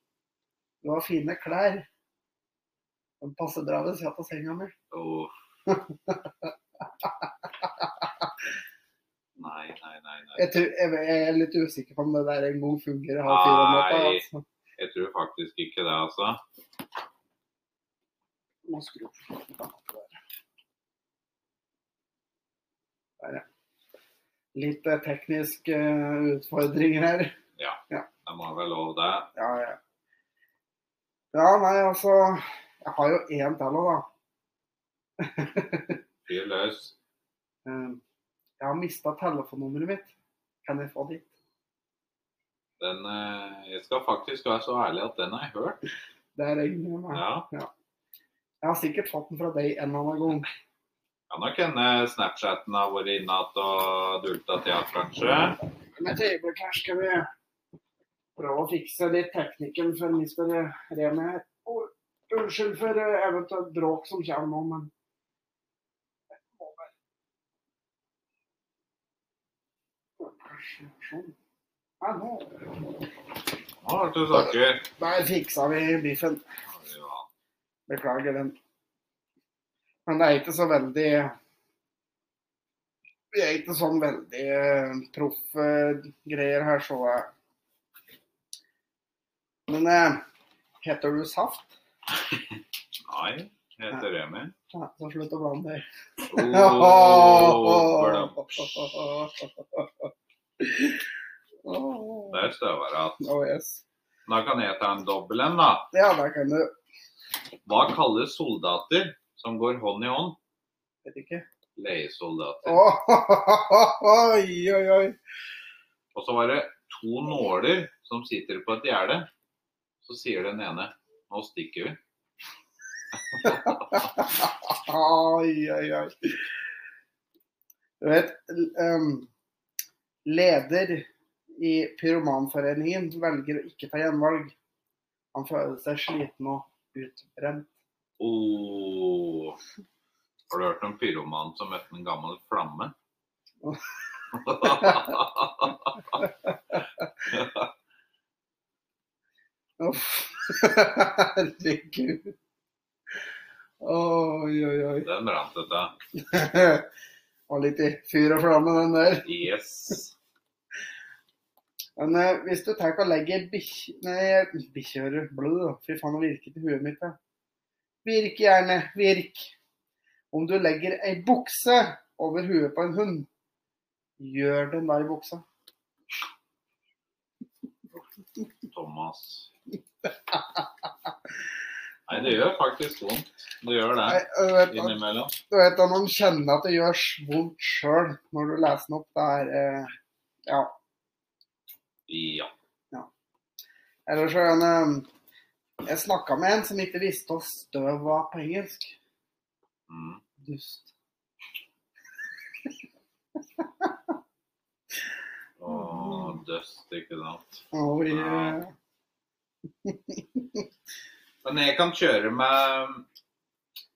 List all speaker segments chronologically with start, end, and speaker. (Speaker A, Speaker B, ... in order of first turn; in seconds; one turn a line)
Speaker A: 0.8-1.9
Speaker A: 3.2-4.7
Speaker B: 4.9-5.3
Speaker A: 5.7-6.5
Speaker A: 7.0-8.1
Speaker B: 9.4-10.5
Speaker A: 10.3-14.4
Speaker B: 13.2-14.2
Speaker B: 14.8-16.4
Speaker A: 18.7-20.1
Speaker A: 24.5-27.3
Speaker B: 27.6-29.3
Speaker A: 29.4-29.8
Speaker A: 31.3-34.0
Speaker A: 35.2-36.0
Speaker B: 36.2-36.9
Speaker A: 37.6-38.0
Speaker A: 38.6-40.1
Speaker A: 40.6-41.3
Speaker B: 42.8-45.8
Speaker A: 46.4-47.7
Speaker B: 47.1-47.5
Speaker A: 48.6-50.5
Speaker B: 51.3-55.6
Speaker A: 56.0-57.3
Speaker A: 58.4-64.9
Speaker A: 66.6-66.9
Speaker A: 70.2-71.3
Speaker A: 72.0-72.9
Speaker B: 73.8-74.8
Speaker A: 74.3-76.5
Speaker B: 76.7-77.3
Speaker A: 77.9-78.5
Speaker A: 80.1-81.3
Speaker A: 83.3-87.3
Speaker A: 89.7-90.2
Speaker A: 90.8-91.7
Speaker B: 93.0-94.5
Speaker A: 94.7-100.1
Speaker B: 96.3-98.7
Speaker A: 100.6-101.0
Speaker A: 101.6-102.5
Speaker B: 102.3-103.2
Speaker A: 103.2-103.8
Speaker B: 104.2-105.9
Speaker A: 105.9-106.7
Speaker B: 107.6-110.4
Speaker A: 111.0-111.4
Speaker B: 111.8-112.8
Speaker A: 112.6-115.2
Speaker B: 116.1-119.3
Speaker B: 120.0-122.0
Speaker B: 123.3-124.0
Speaker A: 123.4-126.5
Speaker A: 128.0-129.3
Speaker A: 130.2-134.5
Speaker A: 135.3-137.7
Speaker B: 138.2-139.6
Speaker B: 140.5-142.9
Speaker B: 144.3-146.2
Speaker A: 144.6-145.2
Speaker A: 146.7-147.1
Speaker B: 147.3-147.7
Speaker A: 149.8-152.3
Speaker A: 153.8-155.1
Speaker B: 155.0-155.9
Speaker A: 156.2-156.9
Speaker A: 157.5-159.3
Speaker B: 159.2-160.1
Speaker A: 162.0-167.2
Speaker A: 168.0-169.5
Speaker A: 170.3-173.3
Speaker A: 174.2-175.4
Speaker B: 178.7-179.5
Speaker A: 180.3-180.6
Speaker B: 182.1-185.3
Speaker A: 184.1-189.9
Speaker A: 190.5-190.7
Speaker B: 192.1-192.5
Speaker A: 194.1-195.1
Speaker A: 195.8-198.9
Speaker B: 199.9-200.2
Speaker A: 200.4-200.9
Speaker A: 203.6-203.9
Speaker B: 205.6-208.6
Speaker A: 205.7-206.3
Speaker A: 207.7-208.7
Speaker A: 209.8-210.6
Speaker B: 211.4-213.1